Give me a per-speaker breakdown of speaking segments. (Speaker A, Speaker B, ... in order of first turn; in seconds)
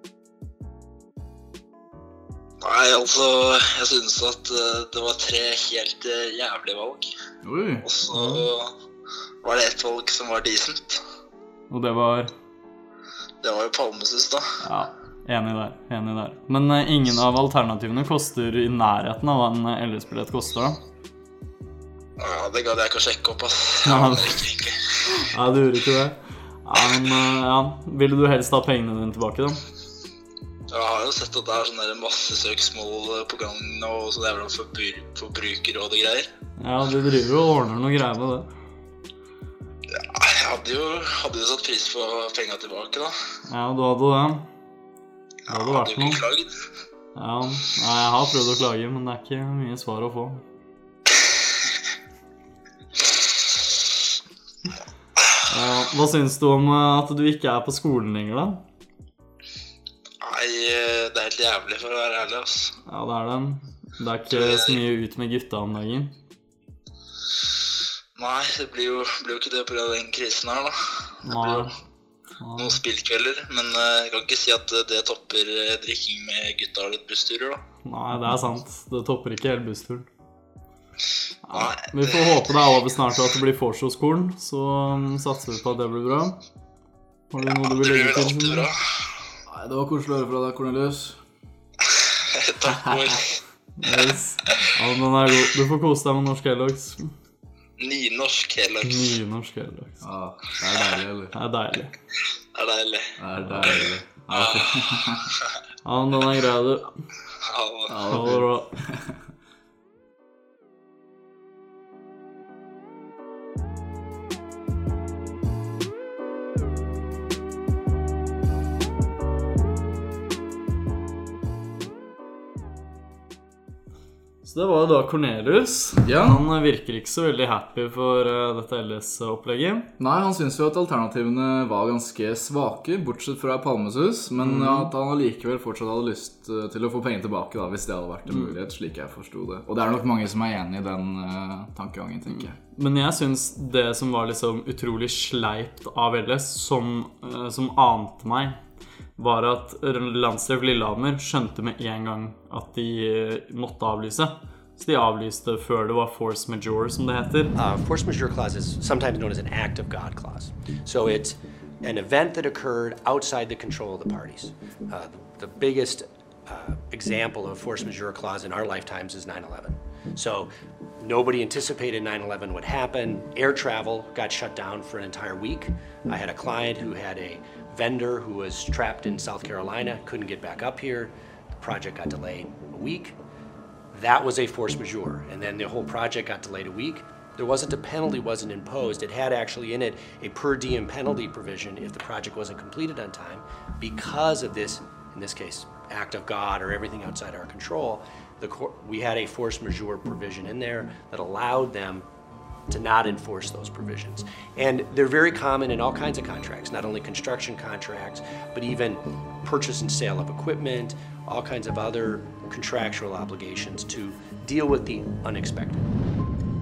Speaker A: 2.6-7.1, 7.8-8.7, 9.4-11.0, 13.4-14.4, 22.2-24.8, 30.7-36.3, 39.9-43.1, 45.5-46.5, 60.2-62.7, 64.3-64.8, 68.2-70.7, 71.2-71.6, 72.6-77.6, 81.5-82.4, 87.6-88.8, 92.3-93.4, 97.8-99.2, 102.5-105.4, 107.4-108.0
Speaker B: 7.4-7.8, 89.5-91.2, 100.0-101.3, 103.2-105.3, 107.9-109.1, 126.0-126.4, 130.0-142.5
Speaker C: 8.1-8.4, 11.7-12.3, 14.6-20.8, 23.8-24.4, 25.1-29.6, 36.6-38.5, 43.5-44.5, 45.5-46.2, 47.1-50.4, 55.5-58.6, 62.8-66.1, 71.2-71.7, 72.4-72.8, 77.8-80.1, 81.4-86.4, 87.3-88.7, 93.8-97.1, 98.8-100.0, 101.3-101.9, 105.8-106.9, 108.1-108.7, 124.4-129.9, 134.4-134.9, 142.3-148.6, 149.2-157.5
Speaker D: 157.6-170.5, 171.0-183.2, 183.9-202.1, 202.7-215.8